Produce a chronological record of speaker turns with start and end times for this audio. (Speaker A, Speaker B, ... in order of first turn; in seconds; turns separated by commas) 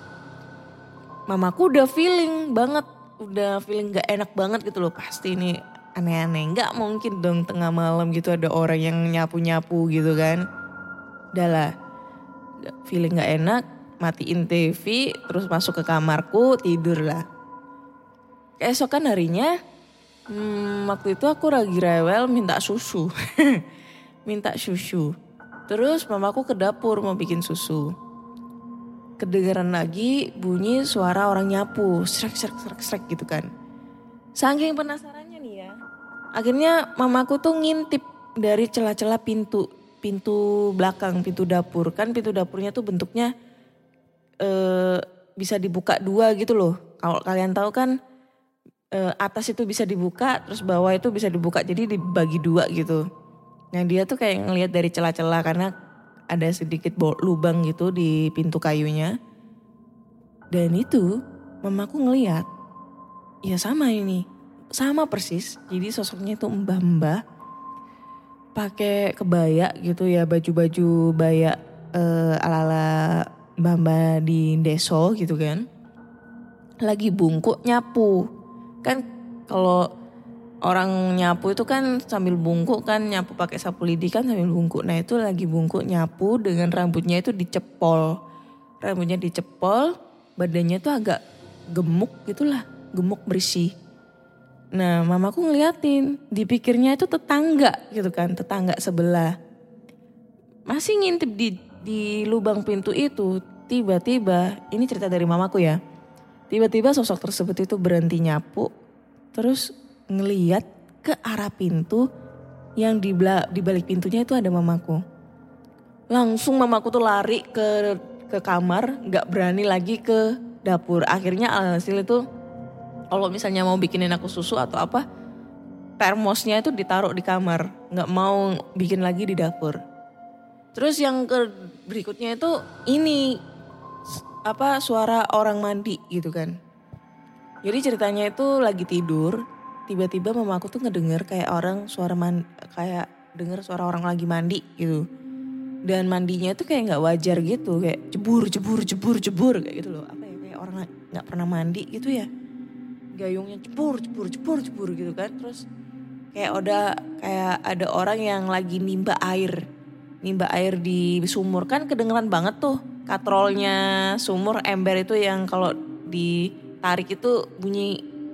Speaker A: 1.3-10.4, Speaker A: 11.3-11.7, Speaker A: 12.8-17.2, Speaker A: 18.6-19.5, Speaker A: 20.3-23.1, Speaker A: 24.2-25.1, Speaker A: 25.7-27.9, Speaker A: 29.2-33.5, Speaker A: 34.4-35.7, Speaker A: 36.4-43.3, Speaker A: 44.4-47.9, Speaker A: 49.0-53.0, Speaker A: 53.7-55.7, Speaker A: 56.3-59.1, Speaker A: 60.5-61.1, Speaker A: 61.6-62.5, Speaker A: 63.4-64.2, Speaker A: 64.8-67.2, Speaker A: 68.6-75.7, Speaker A: 76.8-78.2, Speaker A: 78.8-79.8, Speaker A: 80.7-88.1, Speaker A: 88.8-91.2, Speaker A: 91.7-93.7, Speaker A: 94.7-99.3, Speaker A: 100.7-105.8, Speaker A: 106.5-108.7, Speaker A: 109.3-112.0, Speaker A: 112.8-115.0, Speaker A: 116.1-122.2, Speaker A: 123.1-125.0, Speaker A: 126.0-129.8, Speaker A: 130.7-133.3, Speaker A: 134.5-136.5, Speaker A: 137.6-145.0, Speaker A: 145.9-152.3, Speaker A: 153.2-155.6, Speaker A: 156.3-159.6, Speaker A: 160.2-168.0